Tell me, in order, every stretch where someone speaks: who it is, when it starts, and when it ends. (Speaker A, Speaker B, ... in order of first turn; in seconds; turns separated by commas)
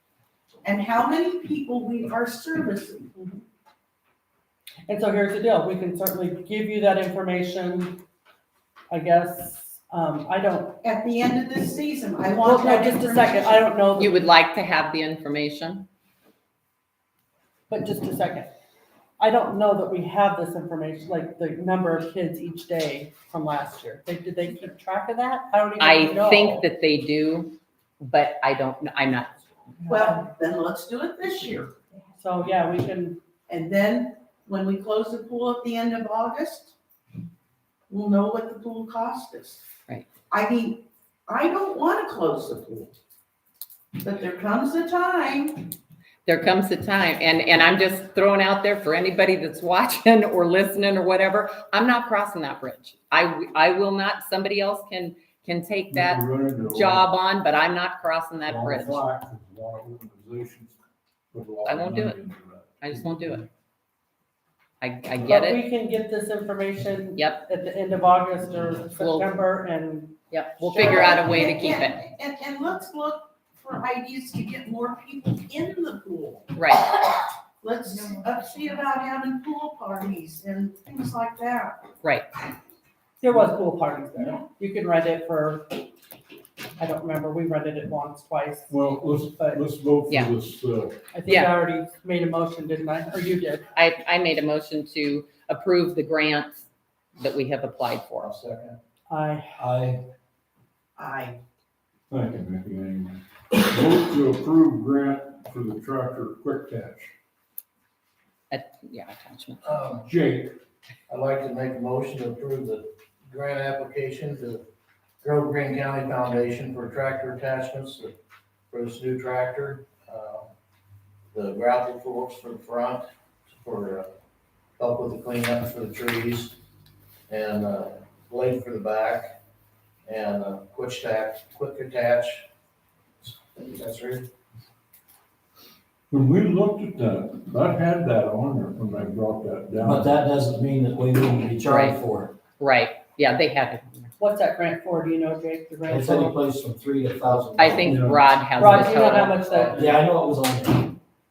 Speaker A: 0.6-3.1, Speaker B: 3.1-3.4, Speaker B: 4.8-8.0, Speaker B: 8.9-10.8, Speaker A: 10.8-13.7, Speaker B: 12.4-14.2, Speaker C: 13.9-15.9, Speaker B: 17.7-18.5, Speaker B: 19.2-26.7, Speaker C: 25.8-29.8, Speaker B: 29.8-30.1, Speaker A: 29.9-31.7, Speaker B: 32.2-33.2, Speaker A: 33.5-36.7, Speaker A: 37.9-39.6, Speaker A: 40.3-42.9, Speaker A: 44.0-45.7, Speaker C: 46.2-59.0, Speaker D: 55.9-57.1, Speaker D: 58.5-60.8, Speaker D: 61.3-63.4, Speaker C: 61.6-62.2, Speaker C: 62.8-63.5, Speaker C: 64.8-65.6, Speaker B: 65.2-71.2, Speaker C: 67.2-67.4, Speaker C: 69.0-69.4, Speaker C: 70.3-72.0, Speaker A: 70.7-76.6, Speaker C: 76.5-76.9, Speaker A: 77.6-81.8, Speaker B: 83.2-85.9, Speaker B: 86.8-88.7, Speaker D: 88.7-91.1, Speaker B: 89.3-89.6, Speaker C: 90.1-90.3, Speaker B: 91.1-93.7, Speaker C: 91.2-91.5, Speaker C: 93.8-96.7, Speaker C: 97.2-98.3, Speaker E: 98.2-98.8, Speaker B: 99.1-99.6, Speaker F: 99.6-100.0, Speaker A: 101.0-101.4, Speaker D: 102.1-107.1, Speaker C: 108.5-109.8, Speaker E: 109.6-110.1, Speaker D: 110.0-110.6, Speaker E: 111.1-114.6, Speaker E: 115.2-118.1, Speaker E: 118.7-120.5, Speaker E: 121.3-124.1, Speaker E: 124.8-126.6, Speaker E: 127.3-129.3, Speaker E: 130.1-132.5, Speaker E: 133.2-134.3, Speaker D: 136.1-140.1, Speaker F: 139.8-142.3, Speaker C: 141.6-142.0, Speaker C: 142.6-144.1, Speaker B: 144.2-146.4, Speaker F: 145.9-148.0, Speaker C: 147.6-149.6, Speaker D: 147.8-148.2, Speaker B: 148.6-150.1, Speaker E: 148.7-150.0, Speaker F: 149.7-151.0